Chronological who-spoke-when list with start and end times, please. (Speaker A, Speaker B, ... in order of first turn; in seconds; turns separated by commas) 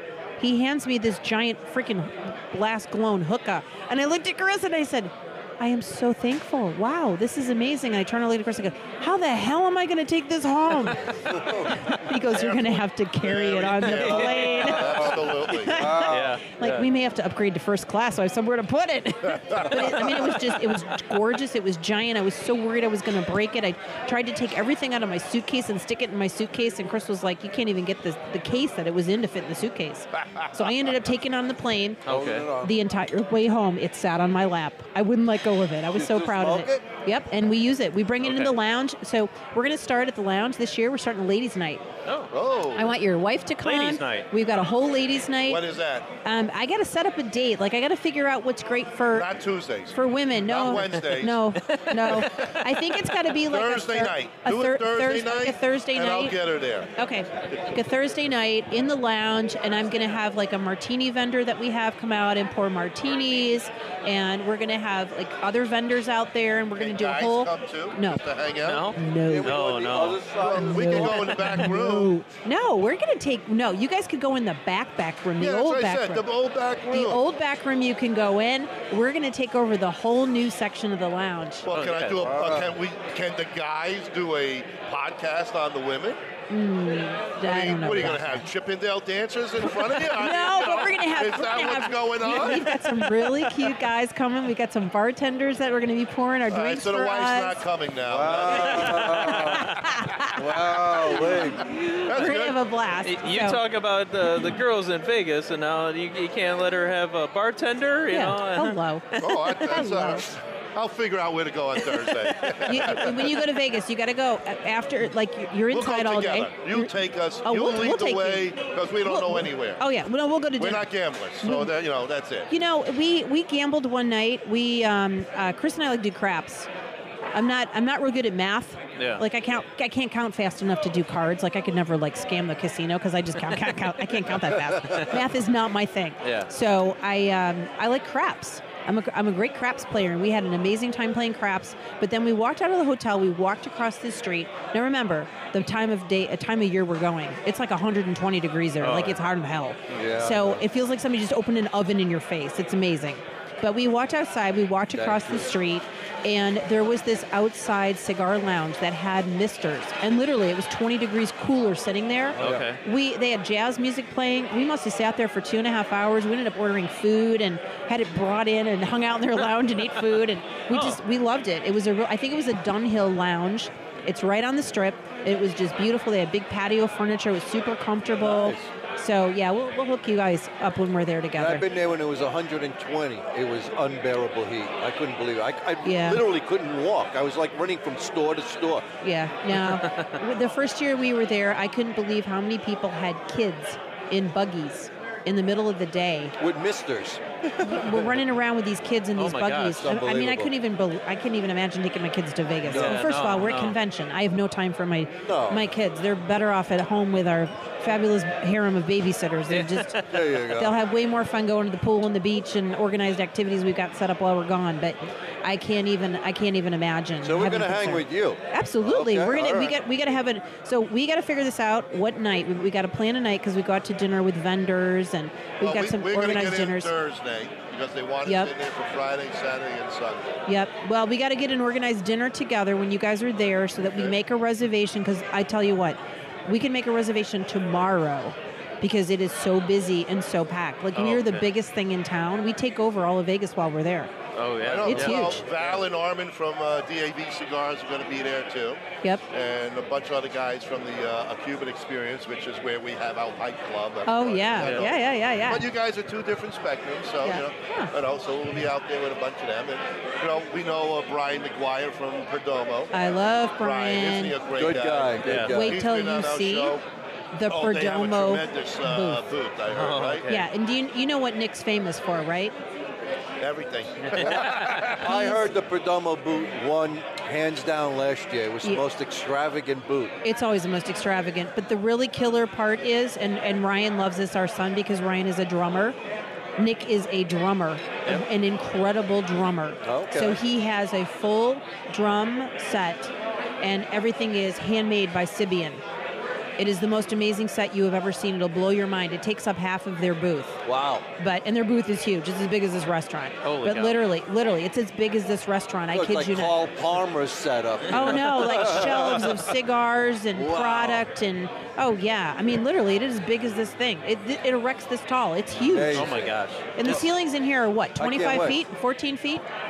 Speaker A: 0.4-32.0, Speaker B: 11.2-11.8, Speaker C: 12.3-15.8, Speaker D: 13.8-15.1, Speaker B: 14.8-16.4, Speaker D: 16.1-16.9, Speaker C: 19.5-20.2, Speaker D: 32.0-32.5, Speaker B: 32.1-32.8, Speaker A: 32.6-41.8, Speaker B: 35.9-36.8, Speaker D: 38.2-38.5, Speaker D: 42.0-42.3, Speaker C: 42.3-43.0, Speaker A: 42.7-45.6, Speaker D: 43.6-44.3, Speaker C: 45.5-46.1, Speaker A: 46.2-49.3, Speaker C: 49.1-51.4, Speaker A: 49.9-56.4, Speaker D: 51.6-53.0, Speaker C: 53.5-56.9, Speaker A: 57.0-68.2, Speaker C: 66.8-68.9, Speaker D: 68.6-70.2, Speaker A: 68.9-69.6, Speaker B: 69.2-71.3, Speaker C: 70.4-72.1, Speaker A: 70.5-76.3, Speaker D: 71.4-71.6, Speaker C: 75.4-77.2, Speaker A: 76.9-81.7, Speaker C: 81.6-86.2, Speaker D: 81.7-82.3, Speaker B: 82.2-82.8, Speaker A: 86.5-88.4, Speaker C: 87.4-92.8, Speaker A: 90.0-97.6, Speaker C: 96.5-99.3, Speaker B: 98.0-101.6, Speaker D: 98.5-99.8, Speaker A: 99.5-103.6, Speaker C: 101.0-102.6, Speaker D: 103.0-109.8, Speaker A: 108.1-110.3, Speaker C: 109.2-113.4, Speaker A: 112.7-118.5, Speaker C: 115.7-119.8, Speaker A: 119.0-121.7, Speaker C: 120.6-122.5, Speaker A: 122.5-126.7, Speaker A: 127.3-181.7, Speaker D: 128.9-129.2, Speaker D: 134.9-135.2, Speaker D: 136.2-136.5, Speaker D: 148.8-149.2, Speaker B: 149.9-150.6, Speaker B: 154.9-155.5, Speaker D: 162.3-162.8, Speaker B: 162.4-162.7, Speaker D: 170.7-171.0, Speaker B: 178.1-178.7, Speaker B: 181.3-188.9, Speaker A: 185.8-186.2, Speaker A: 189.0-196.3, Speaker D: 189.6-190.1, Speaker B: 196.4-198.2, Speaker A: 197.6-226.9, Speaker D: 199.2-199.8, Speaker B: 199.8-200.5, Speaker D: 202.6-203.8, Speaker B: 202.7-203.2, Speaker B: 205.2-205.6, Speaker D: 209.5-210.2, Speaker B: 210.0-210.8, Speaker B: 217.2-219.8, Speaker C: 225.6-230.3, Speaker A: 228.2-228.5, Speaker A: 230.4-244.1, Speaker C: 233.8-234.2, Speaker D: 240.9-241.5, Speaker D: 244.3-245.8, Speaker C: 244.6-262.9, Speaker A: 244.8-245.4, Speaker A: 254.1-255.7, Speaker A: 257.2-257.9, Speaker A: 262.9-264.4, Speaker C: 263.6-266.8, Speaker B: 264.6-265.8, Speaker D: 265.2-265.5, Speaker A: 265.5-266.8, Speaker A: 267.3-269.2, Speaker C: 267.5-270.2, Speaker D: 269.7-270.5, Speaker A: 270.3-272.5, Speaker C: 273.4-275.0, Speaker D: 274.1-275.1, Speaker B: 274.9-280.1, Speaker A: 275.0-275.4, Speaker A: 280.2-286.0, Speaker A: 286.6-295.8, Speaker B: 289.8-290.4, Speaker A: 296.6-300.6, Speaker B: 300.6-301.1, Speaker A: 301.2-306.6, Speaker D: 303.4-303.9, Speaker B: 305.9-309.5, Speaker D: 307.9-308.8, Speaker A: 307.9-316.1, Speaker B: 310.3-311.1, Speaker B: 315.6-316.3, Speaker D: 315.9-317.0, Speaker A: 316.7-319.4, Speaker B: 318.0-318.6